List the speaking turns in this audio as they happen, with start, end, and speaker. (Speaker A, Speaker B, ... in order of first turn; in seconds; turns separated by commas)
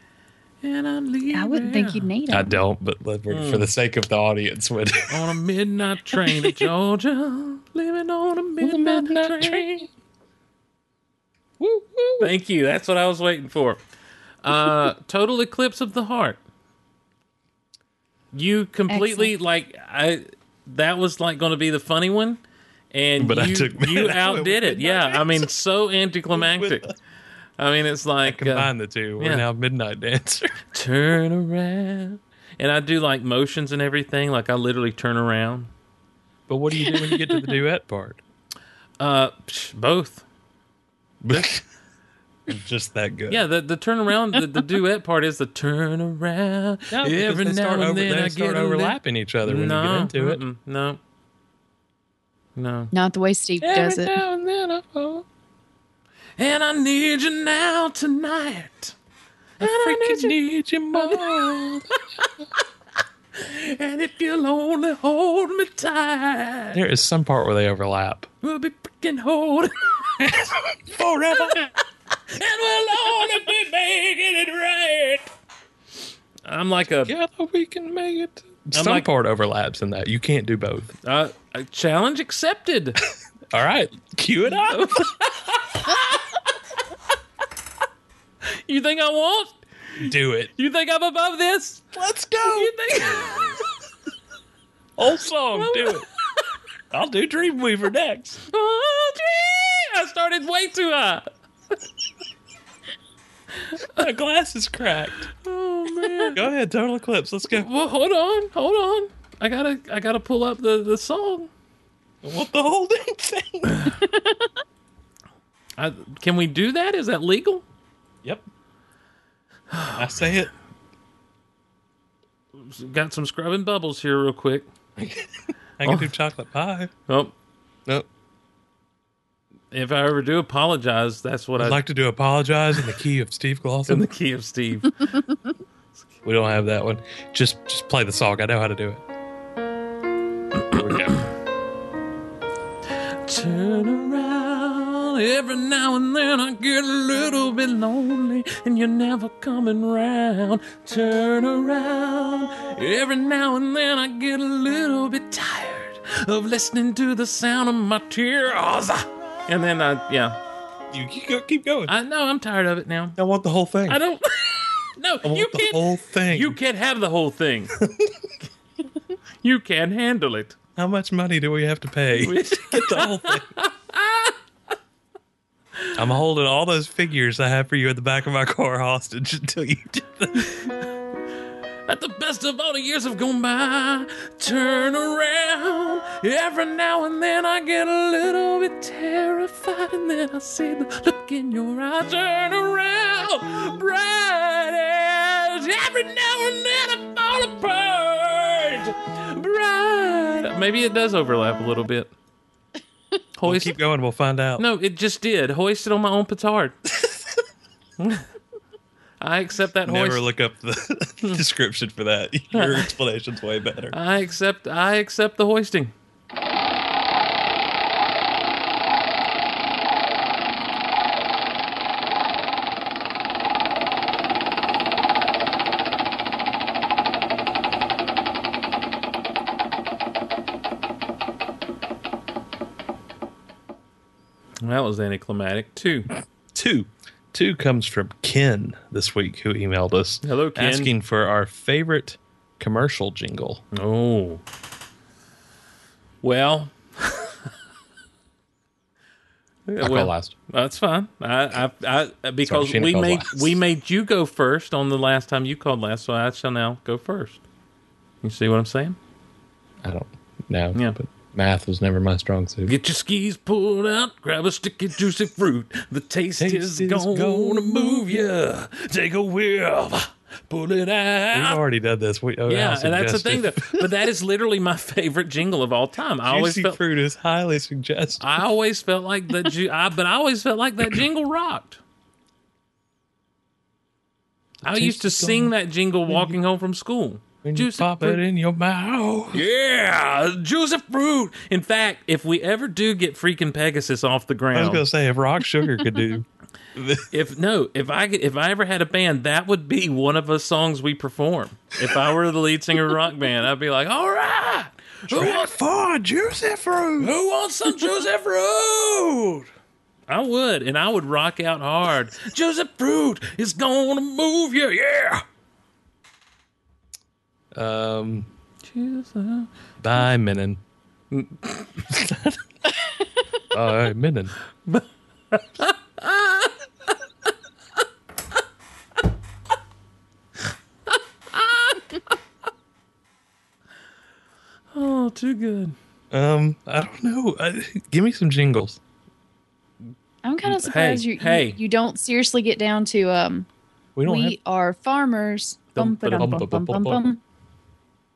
Speaker A: 0.6-2.1, Speaker B: 1.3-2.6, Speaker C: 2.3-5.2, Speaker A: 3.3-3.7, Speaker A: 5.1-9.7, Speaker C: 8.6-9.9, Speaker C: 11.6-12.3, Speaker A: 12.2-13.8, Speaker A: 14.4-16.4, Speaker A: 18.3-22.4, Speaker B: 18.9-19.3, Speaker A: 22.9-26.9, Speaker C: 23.2-25.5, Speaker C: 26.3-26.9, Speaker A: 27.6-29.5, Speaker C: 28.2-30.6, Speaker A: 30.7-35.7, Speaker C: 36.5-38.2, Speaker B: 36.9-37.5, Speaker A: 39.0-40.2, Speaker C: 41.2-41.6, Speaker C: 42.5-43.5, Speaker A: 43.3-51.0, Speaker C: 46.9-50.4, Speaker A: 52.6-52.9, Speaker B: 52.9-54.1, Speaker C: 53.6-55.2, Speaker A: 56.4-59.0, Speaker A: 59.6-60.4, Speaker C: 59.6-61.9, Speaker A: 60.9-61.8, Speaker A: 63.4-66.8, Speaker C: 66.7-68.3, Speaker A: 68.4-70.2, Speaker C: 70.2-71.7, Speaker A: 71.3-71.7, Speaker A: 72.3-75.3, Speaker A: 76.5-77.1, Speaker C: 77.0-81.0, Speaker A: 78.8-79.1, Speaker A: 81.0-83.0, Speaker C: 83.5-85.1, Speaker A: 84.7-86.5, Speaker A: 88.5-91.9, Speaker C: 90.0-90.5, Speaker C: 91.9-93.6, Speaker A: 92.4-93.6, Speaker C: 95.0-96.1, Speaker A: 95.5-96.1, Speaker C: 96.9-98.4, Speaker A: 98.5-101.3, Speaker C: 104.0-105.3, Speaker A: 105.4-106.5, Speaker C: 106.3-107.7, Speaker A: 107.5-111.5, Speaker C: 112.2-114.0, Speaker B: 114.0-114.3, Speaker A: 115.8-117.6, Speaker A: 119.7-120.0, Speaker C: 120.0-120.5, Speaker A: 122.6-124.7, Speaker C: 125.0-126.9, Speaker A: 125.8-126.1, Speaker A: 127.1-127.3, Speaker A: 129.7-131.8, Speaker C: 131.6-134.1, Speaker A: 133.9-135.2, Speaker C: 136.2-139.0, Speaker A: 140.6-141.3, Speaker C: 140.7-141.2, Speaker A: 143.2-160.4, Speaker C: 160.9-161.9, Speaker A: 161.9-163.2, Speaker C: 163.2-164.0, Speaker A: 163.9-167.8, Speaker C: 165.2-166.6, Speaker C: 167.8-168.3, Speaker A: 169.4-170.6, Speaker C: 170.8-173.5, Speaker A: 172.2-174.4, Speaker C: 176.0-180.5, Speaker A: 181.9-202.1, Speaker A: 203.4-203.8, Speaker C: 203.4-204.6, Speaker A: 204.6-206.8, Speaker A: 208.0-208.2, Speaker A: 209.2-210.3, Speaker C: 209.9-214.0, Speaker A: 212.5-212.9, Speaker A: 213.9-215.9, Speaker A: 234.6-236.1, Speaker C: 236.5-243.6, Speaker A: 240.2-240.9, Speaker A: 243.7-244.4, Speaker A: 246.2-247.4, Speaker A: 249.7-257.4, Speaker C: 249.8-250.3, Speaker C: 252.4-253.6, Speaker A: 258.2-259.0, Speaker C: 259.8-262.8, Speaker A: 262.7-271.6, Speaker C: 266.4-268.3, Speaker C: 271.3-273.9, Speaker A: 272.5-276.8, Speaker C: 276.2-278.4, Speaker A: 278.2-281.8, Speaker C: 284.6-285.5, Speaker A: 284.6-288.2, Speaker C: 286.1-286.4, Speaker C: 287.4-289.5, Speaker A: 289.3-294.8, Speaker C: 294.5-297.1, Speaker A: 297.1-305.5, Speaker C: 305.1-307.1, Speaker A: 307.0-309.5, Speaker A: 310.1-315.2, Speaker C: 317.5-318.3, Speaker A: 318.6-319.5, Speaker C: 319.8-320.6, Speaker A: 321.1-321.8, Speaker C: 321.9-322.4, Speaker C: 323.5-324.4, Speaker A: 324.7-326.6, Speaker A: 330.9-332.0, Speaker A: 334.7-335.8, Speaker C: 336.1-338.8, Speaker B: 340.2-343.5, Speaker A: 340.4-341.6, Speaker C: 344.0-344.4, Speaker B: 344.1-347.2, Speaker A: 345.8-346.4, Speaker C: 346.2-347.0